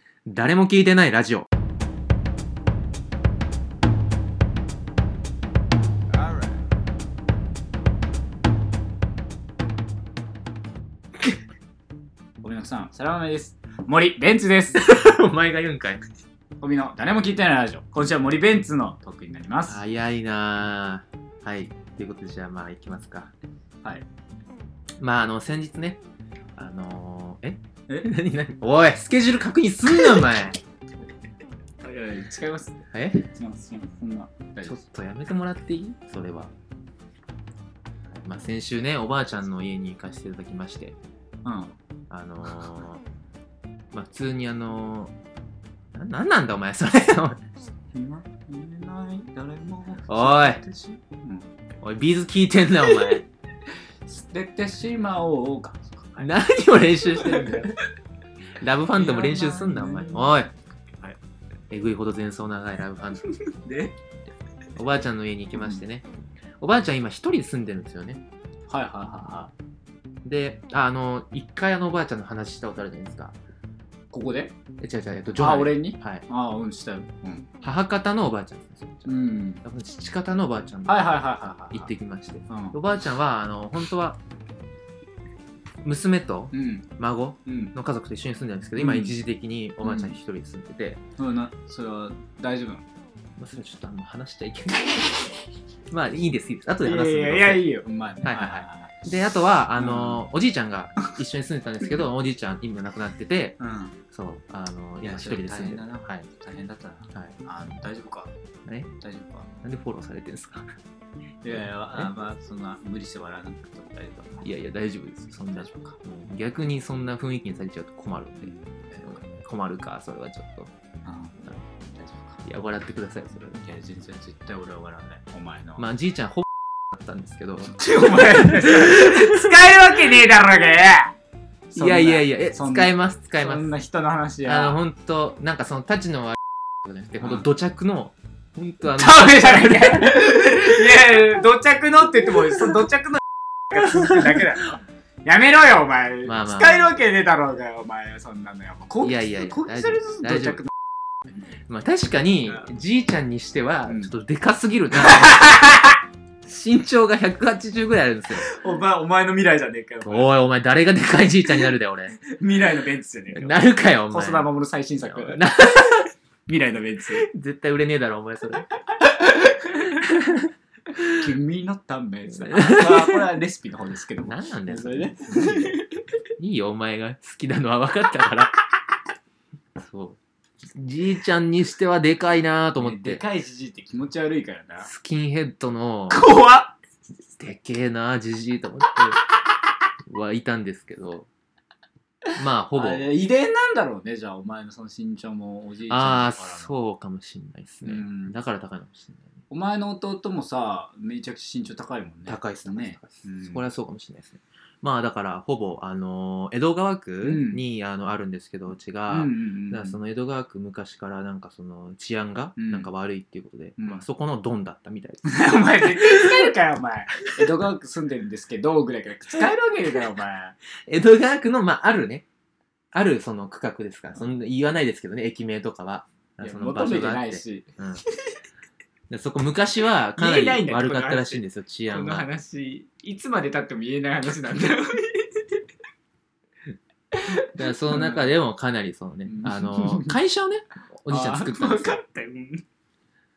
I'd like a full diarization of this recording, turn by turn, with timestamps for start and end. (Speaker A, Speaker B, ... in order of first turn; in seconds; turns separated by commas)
Speaker A: 0.3-1.5, Speaker B: 12.4-14.9, Speaker A: 14.7-16.0, Speaker B: 16.6-19.8, Speaker A: 19.7-23.3, Speaker A: 25.0-26.0, Speaker A: 26.6-30.6, Speaker B: 31.8-34.8, Speaker A: 32.9-33.3, Speaker A: 34.6-36.5, Speaker A: 38.1-41.0, Speaker B: 41.4-41.7, Speaker A: 42.1-43.0, Speaker A: 43.9-45.1, Speaker A: 45.9-47.4, Speaker B: 47.9-51.5, Speaker A: 50.1-50.6, Speaker A: 51.8-53.2, Speaker B: 52.9-53.2, Speaker B: 54.1-56.3, Speaker A: 56.2-57.8, Speaker B: 57.1-57.6, Speaker A: 58.6-60.5, Speaker B: 58.9-60.5, Speaker A: 61.7-63.4, Speaker B: 63.3-63.9, Speaker A: 64.8-66.0, Speaker B: 65.5-65.8, Speaker A: 66.6-68.2, Speaker B: 68.7-69.5, Speaker A: 70.2-73.3, Speaker B: 74.1-74.5, Speaker A: 74.8-76.2, Speaker B: 75.4-77.5, Speaker A: 77.6-79.1, Speaker B: 79.1-79.6, Speaker A: 79.6-81.1, Speaker B: 80.9-81.9, Speaker A: 81.7-84.2, Speaker B: 82.5-82.8, Speaker A: 85.8-91.0, Speaker B: 86.5-86.8, Speaker B: 87.5-87.7, Speaker B: 88.8-89.1, Speaker B: 89.8-90.2, Speaker B: 91.2-92.8, Speaker A: 93.4-97.7, Speaker B: 96.8-98.9, Speaker A: 98.2-103.6, Speaker B: 99.8-100.2, Speaker B: 103.6-104.0, Speaker A: 104.1-106.3, Speaker B: 105.0-108.3, Speaker B: 109.0-109.5, Speaker A: 109.6-110.7, Speaker B: 111.4-114.5, Speaker A: 111.5-112.1, Speaker A: 114.4-120.7, Speaker B: 115.5-116.0, Speaker B: 118.4-119.2, Speaker B: 121.0-121.4, Speaker B: 121.9-122.4, Speaker A: 122.4-123.6, Speaker B: 123.5-125.8, Speaker A: 125.8-127.8, Speaker B: 127.7-131.1, Speaker A: 128.4-129.5, Speaker B: 131.7-134.8, Speaker A: 131.8-133.7, Speaker A: 134.4-140.1, Speaker B: 137.2-137.5, Speaker B: 138.9-150.7, Speaker A: 146.2-147.0, Speaker A: 149.0-150.6, Speaker A: 151.7-155.9, Speaker B: 153.9-154.1, Speaker B: 155.0-156.0, Speaker A: 156.4-158.5, Speaker B: 158.3-160.3, Speaker A: 160.0-162.2, Speaker B: 162.3-165.6, Speaker A: 163.3-164.5, Speaker A: 165.0-166.1, Speaker B: 166.5-167.2, Speaker A: 167.2-168.7, Speaker B: 168.9-170.0, Speaker A: 170.0-171.1, Speaker B: 171.1-176.0, Speaker A: 172.5-173.2, Speaker A: 174.2-175.8, Speaker A: 176.4-178.6, Speaker A: 179.8-183.2, Speaker B: 182.8-184.9, Speaker A: 184.8-186.2, Speaker B: 186.1-186.7, Speaker A: 187.4-189.2, Speaker A: 190.0-191.3, Speaker A: 192.3-193.1, Speaker B: 192.7-196.7, Speaker A: 195.9-199.2, Speaker B: 197.8-198.3, Speaker B: 199.5-203.6, Speaker A: 202.3-216.5, Speaker B: 207.2-207.6, Speaker B: 209.1-210.0, Speaker B: 212.6-212.9, Speaker B: 213.8-214.0, Speaker B: 215.2-220.6, Speaker A: 220.9-222.2, Speaker A: 222.9-228.0, Speaker B: 226.4-227.7, Speaker A: 229.1-232.3, Speaker B: 230.2-235.6, Speaker B: 237.1-238.3, Speaker A: 237.4-242.0, Speaker B: 239.2-240.2, Speaker B: 241.1-242.6